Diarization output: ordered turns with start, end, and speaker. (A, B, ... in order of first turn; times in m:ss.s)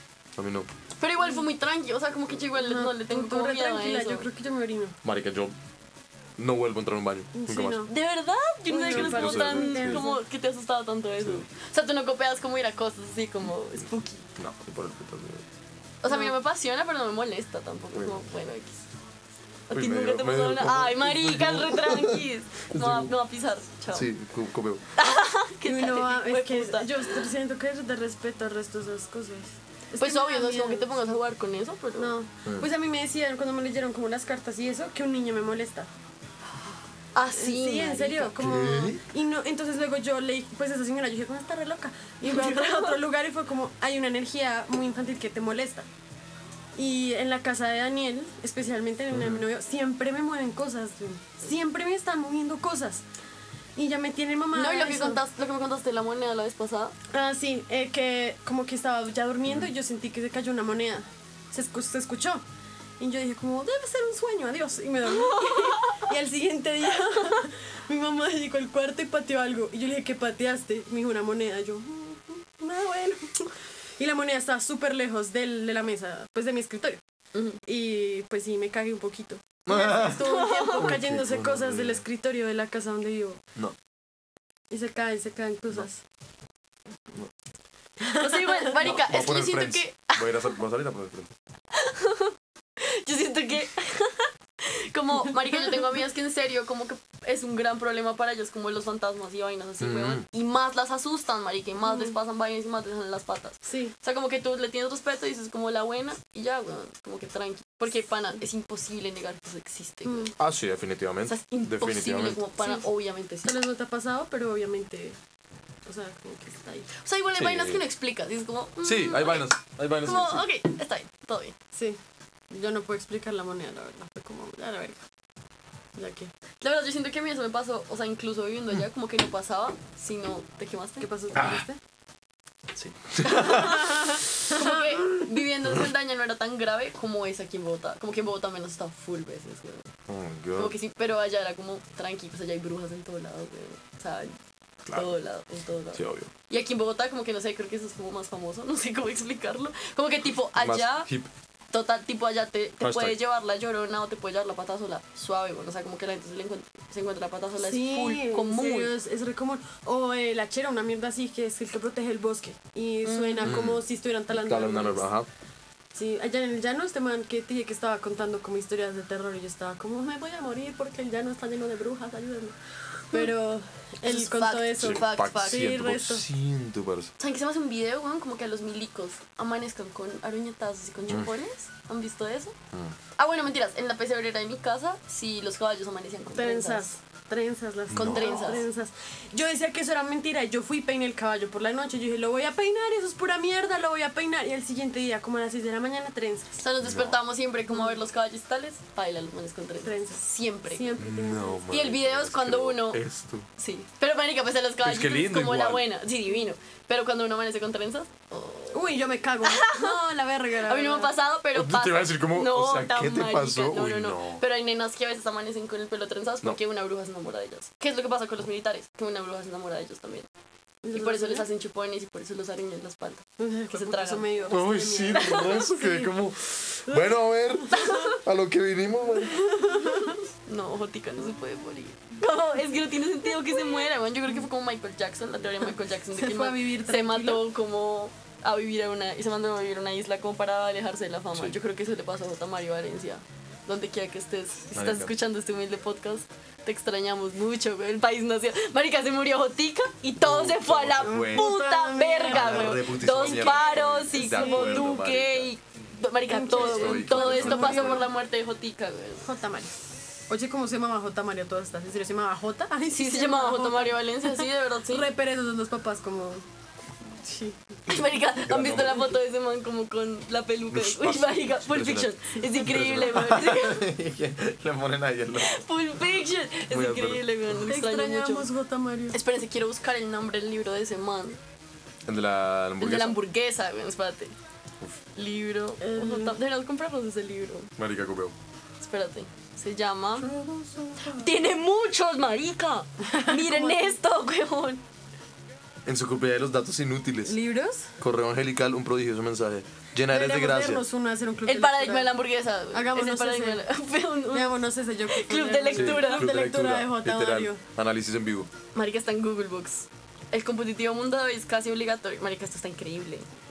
0:00.4-0:00.7 A
0:01.0-0:04.3 B
0:02.6-0:05.0 C
0:05.0-0:05.6 A
0:06.4-0:07.9 A
0:07.3-0:07.9 C
0:07.9-0:14.3 B
0:08.7-0:10.2 C
0:08.9-0:10.0 A
0:11.2-0:11.5 A
0:14.4-0:15.4 A
0:16.0-0:18.9 B
0:16.1-0:16.4 C
0:18.0-0:18.2 A
0:19.7-0:24.1 B
0:19.7-0:23.1 A
0:23.9-0:24.8 A
0:25.0-0:27.3 B
0:25.6-0:31.1 C
0:30.0-0:32.1 B
0:32.0-0:35.9 C
0:37.2-0:38.4 B
0:37.3-0:45.9 C
0:38.4-0:39.0 A
0:42.2-0:43.0 B
0:46.8-0:53.0 C
0:49.1-0:49.4 A
0:53.8-0:55.2 C
0:54.5-0:57.0 B
0:57.1-1:02.4 C
1:03.0-1:17.0 C
1:05.3-1:06.0 B
1:17.3-1:17.6 B
1:17.6-1:23.4 C
1:19.7-1:22.0 A
1:20.0-1:20.9 B
1:24.7-1:26.0 C
1:28.0-1:30.3 B
1:28.1-1:28.7 C
1:28.8-1:31.3 A
1:31.8-1:50.4 B
1:39.8-1:40.2 A
1:41.9-1:42.2 C
1:43.6-1:43.9 C
1:50.1-1:50.3 C
1:50.4-1:52.4 A
1:51.3-1:53.6 B
1:53.4-1:55.2 C
1:55.9-1:56.9 C
1:57.0-2:01.6 B
1:57.4-1:57.8 A
1:58.8-2:00.4 A
2:01.7-2:02.0 C
2:02.5-2:05.0 C
2:06.0-2:06.3 C
2:06.6-2:11.6 B
2:11.0-2:11.8 C
2:11.4-2:11.6 A
2:12.7-2:14.0 A
2:13.2-2:19.9 B
2:14.5-2:15.3 C
2:20.1-2:20.8 A
2:20.6-2:24.4 B
2:24.9-2:25.1 A
2:24.9-2:31.1 B
2:26.0-2:26.3 A
2:30.6-2:31.3 A
2:31.7-2:38.9 B
2:32.8-2:33.2 A
2:37.6-2:45.1 C
2:43.0-2:43.7 B
2:43.4-2:45.3 A
2:45.9-2:52.6 C
2:53.1-2:56.2 C
2:54.0-2:55.7 B
2:54.8-2:57.1 A
2:57.2-3:02.6 B
3:03.2-3:06.9 B
3:06.3-3:16.6 C
3:07.9-3:08.6 A
3:07.9-3:08.7 B
3:16.6-3:21.1 B
3:16.8-3:17.2 A
3:19.8-3:21.6 C
3:21.0-3:23.5 A
3:21.7-3:23.0 B
3:23.6-3:30.0 B
3:24.8-3:25.8 A
3:28.7-3:31.1 C
3:30.6-3:40.3 B
3:31.5-3:34.4 A
3:40.8-3:41.5 C
3:40.9-3:44.6 B
3:43.4-3:46.1 C
3:44.5-3:49.4 A
3:49.4-3:50.2 C
3:50.5-4:19.3 B
3:56.2-3:57.5 C
4:04.7-4:05.1 A
4:10.2-4:11.6 A
4:11.0-4:15.0 C
4:12.3-4:15.5 A
4:16.3-4:18.1 C
4:16.5-4:18.1 A
4:19.2-4:19.8 C
4:20.3-4:26.4 C
4:22.9-4:25.1 B
4:27.2-4:27.8 C
4:27.9-4:33.9 B
4:28.4-4:29.2 A
4:30.7-4:35.6 A
4:35.4-4:38.5 B
4:36.7-4:37.3 A
4:37.7-4:39.2 C
4:39.1-4:41.4 B
4:42.0-4:43.2 A
4:42.8-4:44.3 B
4:45.2-4:47.7 B
4:45.8-4:46.4 C
4:47.8-4:48.4 A
4:48.8-4:50.3 B
4:50.3-4:50.6 C
4:50.5-4:51.2 A
4:51.1-4:54.8 B
4:53.0-4:54.0 C
4:55.8-4:57.4 A
4:57.2-4:57.9 C
4:58.0-5:00.8 A
5:00.1-5:02.2 C
5:01.5-5:06.4 B
5:02.7-5:03.7 C
5:04.3-5:07.6 C
5:05.7-5:08.5 A
5:08.7-5:13.3 B